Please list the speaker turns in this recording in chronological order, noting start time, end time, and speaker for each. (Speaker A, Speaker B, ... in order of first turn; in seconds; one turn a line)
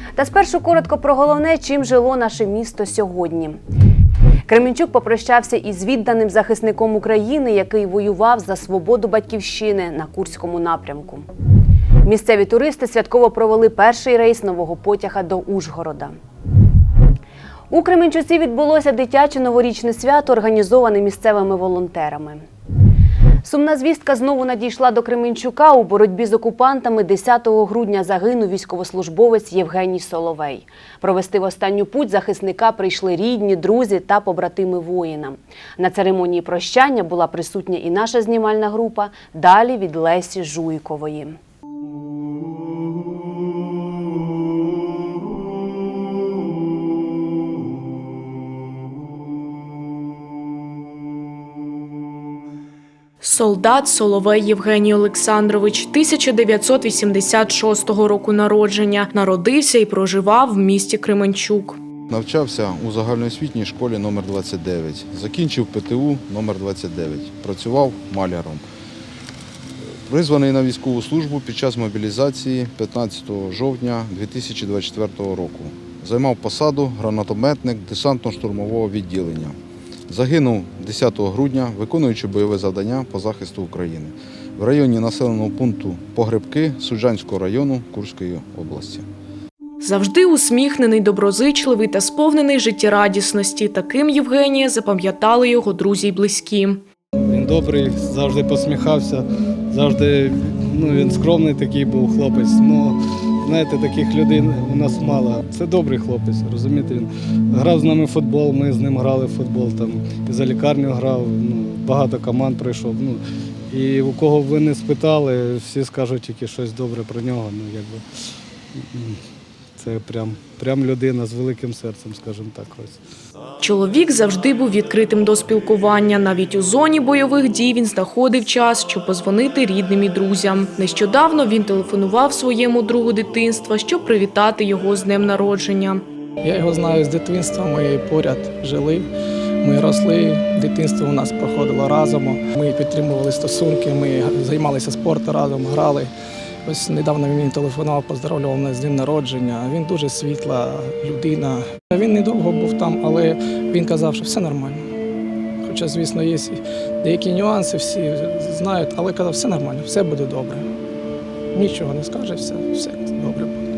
Speaker A: 0.1-3.6
Speaker A: 4.5-11.2
Speaker A: 12.0-16.1
Speaker A: 17.7-22.4
Speaker A: 23.4-41.4
Speaker B: 53.2-61.8
Speaker C: 62.1-68.6
Speaker C: 70.0-79.6
Speaker C: 80.1-89.1
Speaker B: 89.8-96.8
Speaker D: 97.2-118.0
Speaker D: 118.8-119.2
Speaker D: 119.8-123.0
Speaker B: 123.6-136.0
Speaker E: 136.4-139.1
Speaker E: 139.6-146.1
Speaker E: 146.7-154.8
Speaker E: 155.7-160.6
Speaker E: 161.5-163.6